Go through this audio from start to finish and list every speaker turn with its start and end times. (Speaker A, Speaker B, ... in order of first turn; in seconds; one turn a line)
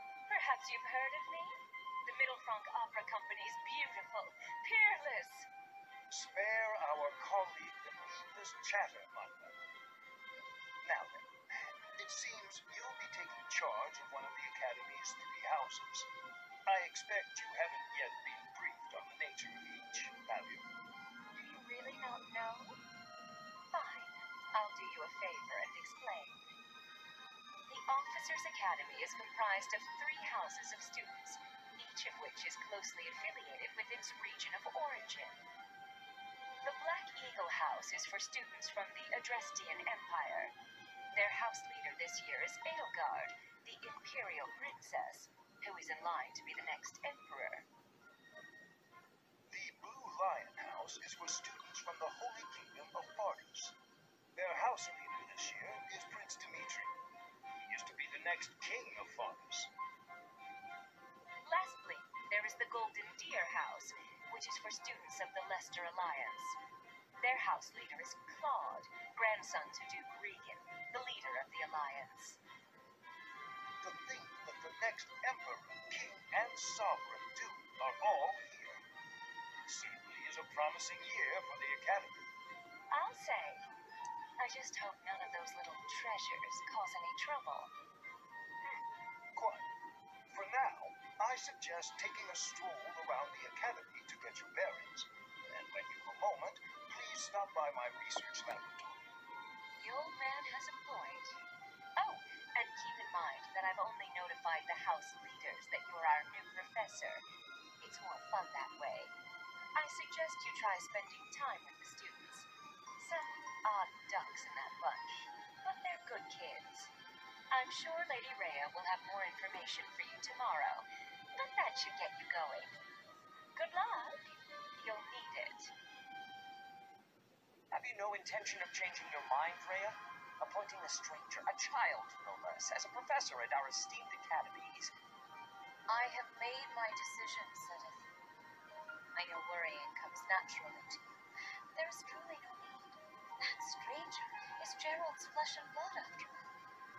Speaker A: 0.3-5.5
Speaker B: 6.1-9.6
Speaker B: 10.8-16.1
Speaker B: 16.6-20.6
Speaker A: 21.3-22.8
Speaker A: 23.7-26.4
Speaker A: 27.7-35.4
Speaker A: 36.6-40.5
Speaker A: 41.1-47.6
Speaker B: 49.5-53.8
Speaker B: 54.3-57.0
Speaker B: 57.6-59.7
Speaker A: 61.4-66.6
Speaker A: 67.2-72.4
Speaker B: 73.8-78.8
Speaker B: 79.7-82.2
Speaker A: 82.9-83.7
Speaker A: 84.4-87.7
Speaker B: 89.3-89.6
Speaker B: 90.3-99.0
Speaker A: 99.8-101.4
Speaker A: 102.0-107.2
Speaker A: 107.8-109.1
Speaker A: 109.7-116.9
Speaker A: 117.5-122.8
Speaker A: 123.5-125.7
Speaker C: 127.7-134.9
Speaker A: 135.9-138.1
Speaker A: 139.1-141.1
Speaker A: 141.7-146.5